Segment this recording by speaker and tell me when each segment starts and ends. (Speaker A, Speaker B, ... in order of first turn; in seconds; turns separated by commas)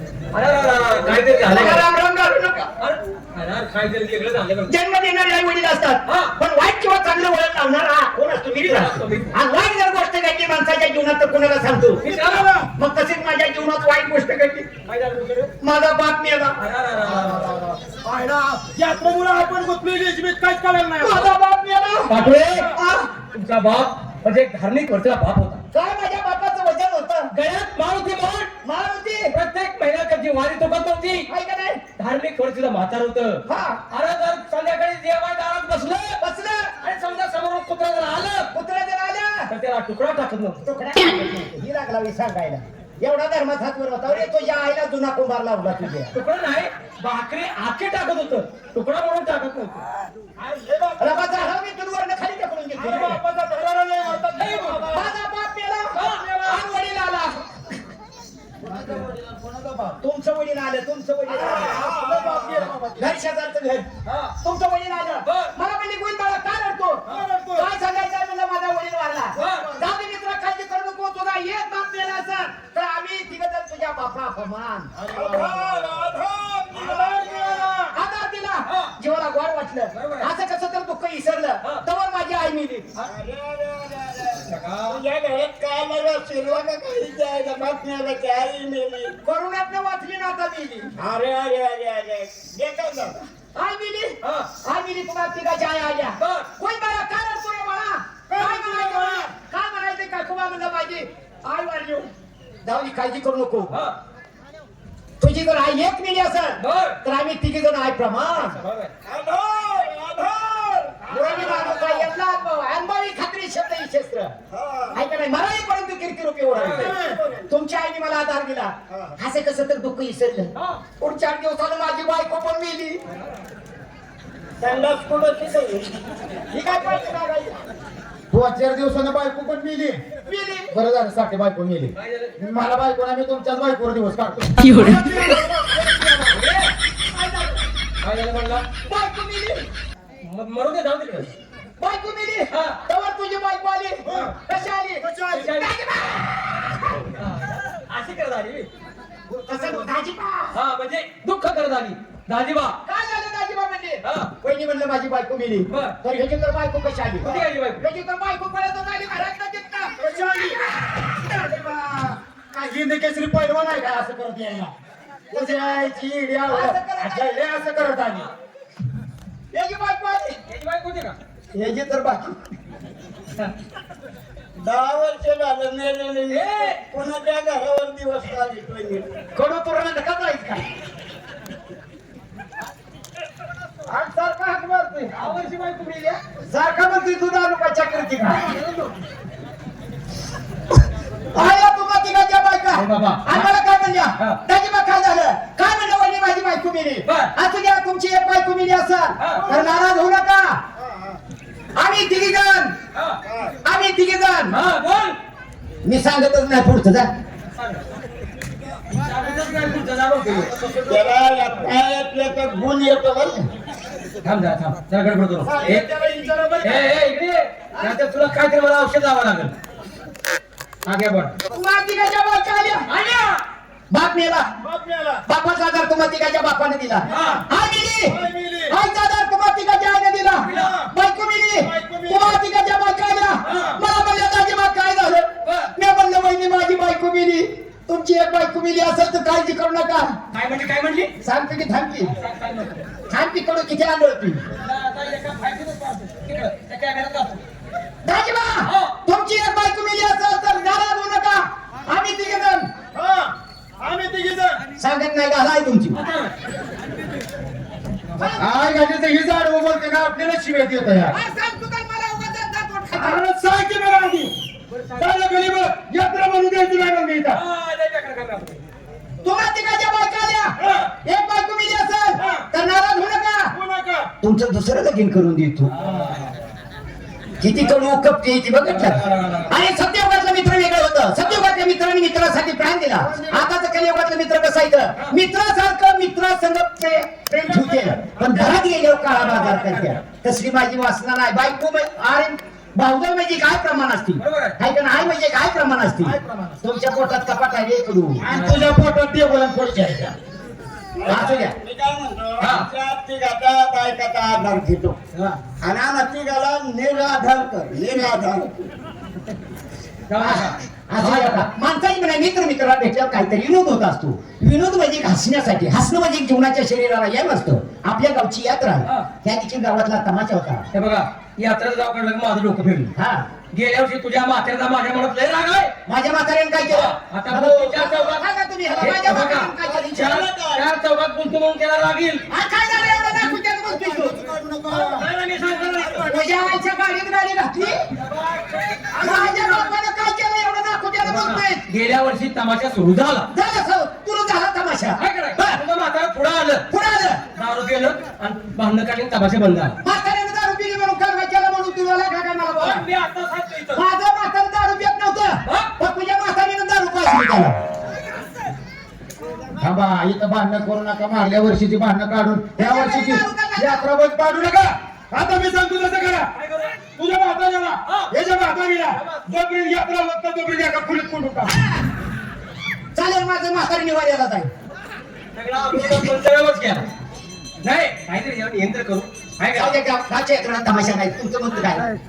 Speaker A: 0.3-1.9, Speaker B: 1.4-2.7, Speaker A: 2.8-4.7, Speaker B: 4.7-12.1, Speaker A: 6.1-6.3, Speaker A: 8.6-9.3, Speaker A: 12.0-12.5, Speaker C: 12.1-12.7, Speaker B: 12.7-14.7, Speaker A: 14.9-15.5, Speaker B: 15.6-16.6, Speaker A: 16.6-17.5, Speaker C: 17.0-21.3, Speaker B: 21.0-22.1, Speaker A: 22.1-22.7, Speaker C: 22.4-22.8, Speaker B: 22.7-23.1, Speaker A: 23.3-25.6, Speaker B: 25.7-27.3, Speaker A: 27.3-28.5, Speaker B: 28.6-29.3, Speaker A: 29.3-31.3, Speaker B: 31.3-31.8, Speaker A: 32.0-36.2, Speaker B: 33.5-33.8, Speaker B: 36.2-36.7, Speaker A: 36.8-38.5, Speaker B: 38.5-39.5, Speaker A: 39.5-40.6, Speaker B: 40.6-46.2, Speaker C: 44.1-44.3, Speaker A: 46.1-49.8, Speaker C: 50.4-51.4, Speaker B: 51.0-53.2, Speaker C: 52.8-55.1, Speaker A: 54.3-54.9, Speaker B: 54.9-57.4, Speaker A: 55.9-56.6, Speaker C: 58.6-60.0, Speaker B: 60.0-63.9, Speaker C: 61.3-63.2, Speaker D: 61.6-62.4, Speaker A: 64.1-64.4, Speaker B: 64.4-75.4, Speaker A: 65.2-65.5, Speaker C: 67.1-67.7, Speaker A: 69.3-69.7, Speaker C: 69.4-69.9, Speaker C: 75.0-76.1, Speaker D: 75.1-77.7, Speaker C: 76.7-78.0, Speaker B: 77.9-82.9, Speaker A: 78.7-78.9, Speaker A: 79.9-80.3, Speaker D: 83.0-89.2, Speaker A: 84.5-85.0, Speaker B: 89.2-90.9, Speaker D: 91.0-93.2, Speaker B: 93.5-102.1, Speaker A: 94.2-94.5, Speaker A: 96.2-96.5, Speaker C: 98.3-99.3, Speaker B: 102.6-103.8, Speaker A: 103.7-104.0, Speaker B: 105.2-108.6, Speaker A: 106.6-107.0, Speaker A: 108.4-108.9, Speaker D: 109.0-111.9, Speaker C: 111.1-112.1, Speaker B: 111.1-114.3, Speaker D: 114.5-115.0, Speaker B: 114.9-117.0, Speaker A: 116.5-116.9, Speaker D: 116.6-117.5, Speaker C: 116.7-117.2, Speaker B: 117.5-123.0, Speaker D: 118.9-119.2, Speaker D: 124.6-126.1, Speaker B: 126.5-127.6, Speaker C: 128.3-130.0, Speaker B: 130.3-130.7, Speaker C: 130.7-136.4, Speaker A: 132.0-132.3, Speaker A: 136.3-136.7, Speaker B: 137.1-137.6, Speaker A: 138.0-138.7, Speaker B: 138.9-139.7, Speaker A: 140.2-141.3, Speaker B: 141.8-147.2, Speaker A: 142.5-142.8, Speaker C: 144.0-144.4, Speaker C: 145.0-145.6, Speaker A: 145.3-145.7, Speaker A: 147.2-148.7, Speaker C: 149.3-149.9, Speaker B: 149.5-150.6, Speaker A: 150.5-152.8, Speaker B: 152.9-161.3, Speaker A: 154.0-154.3, Speaker A: 155.7-156.0, Speaker A: 157.2-157.8, Speaker C: 160.0-160.6, Speaker C: 161.2-164.7, Speaker C: 165.3-168.3, Speaker B: 165.3-167.4, Speaker B: 169.5-170.4, Speaker A: 170.5-171.2, Speaker B: 171.5-172.4, Speaker D: 174.6-179.1, Speaker A: 176.3-176.8, Speaker B: 179.3-180.7, Speaker B: 183.9-185.1, Speaker A: 185.1-186.2, Speaker B: 186.5-188.5, Speaker A: 188.5-188.8, Speaker B: 191.3-200.6, Speaker A: 192.8-193.5, Speaker A: 197.1-197.3, Speaker A: 199.2-199.5, Speaker D: 200.8-201.2, Speaker B: 201.8-202.8, Speaker A: 202.9-203.2, Speaker D: 203.2-203.6, Speaker B: 203.7-204.6, Speaker A: 204.5-205.2, Speaker B: 205.8-207.1, Speaker A: 209.0-210.5, Speaker D: 210.9-213.5, Speaker A: 214.2-215.9, Speaker C: 215.4-216.9, Speaker A: 216.6-219.5, Speaker A: 220.9-221.3, Speaker B: 221.5-222.9, Speaker A: 222.9-223.4, Speaker B: 223.9-224.5, Speaker C: 224.6-225.2, Speaker B: 225.3-228.2, Speaker C: 227.0-227.5, Speaker A: 227.1-227.4, Speaker C: 228.1-228.8, Speaker B: 228.7-240.2, Speaker A: 230.4-230.8, Speaker C: 230.4-230.9, Speaker C: 231.6-232.4, Speaker A: 233.4-233.8, Speaker C: 233.5-233.7, Speaker A: 235.4-235.7, Speaker A: 240.3-241.1, Speaker B: 241.2-242.2, Speaker A: 242.2-242.9, Speaker B: 243.1-244.4, Speaker A: 244.6-247.4, Speaker B: 248.1-252.7, Speaker A: 248.7-248.9, Speaker C: 253.0-253.3, Speaker C: 253.8-254.6, Speaker B: 254.8-256.0, Speaker A: 255.9-256.3, Speaker C: 258.4-261.1, Speaker B: 261.1-263.2, Speaker C: 262.9-264.3, Speaker A: 264.7-265.1, Speaker C: 265.0-267.4, Speaker A: 267.3-268.6, Speaker B: 269.2-273.5, Speaker C: 272.2-272.4, Speaker C: 273.5-274.1, Speaker B: 274.2-275.7, Speaker A: 275.8-276.3, Speaker B: 277.4-298.2, Speaker A: 278.6-279.6, Speaker C: 283.0-283.5, Speaker C: 287.4-290.0, Speaker A: 294.2-294.6, Speaker C: 296.0-296.6, Speaker C: 298.2-300.1, Speaker A: 298.3-298.7, Speaker D: 301.0-305.0, Speaker B: 301.1-301.5, Speaker A: 302.4-302.7, Speaker A: 305.1-305.4, Speaker D: 305.6-308.7, Speaker A: 310.1-311.5, Speaker B: 310.2-320.7, Speaker A: 320.7-322.9, Speaker B: 323.0-323.2, Speaker A: 323.5-325.7, Speaker B: 325.9-330.2, Speaker A: 326.6-328.2, Speaker A: 328.8-332.2, Speaker D: 328.9-330.6, Speaker B: 332.3-334.1, Speaker C: 333.6-335.1, Speaker A: 334.7-336.2, Speaker C: 335.7-336.2, Speaker B: 336.0-337.9, Speaker A: 337.7-339.5, Speaker B: 338.9-341.6, Speaker A: 341.0-343.3, Speaker B: 343.3-345.6, Speaker A: 345.0-346.6, Speaker B: 346.7-347.2, Speaker A: 347.4-349.8, Speaker B: 349.8-352.9, Speaker A: 352.5-353.8, Speaker B: 353.8-357.6, Speaker A: 355.5-355.7, Speaker C: 359.6-366.3, Speaker B: 362.6-363.9, Speaker A: 366.3-366.8, Speaker C: 366.9-371.6, Speaker A: 367.9-368.1, Speaker A: 368.9-369.3, Speaker B: 372.9-374.5, Speaker A: 375.3-376.9, Speaker A: 377.6-379.7, Speaker B: 379.6-381.9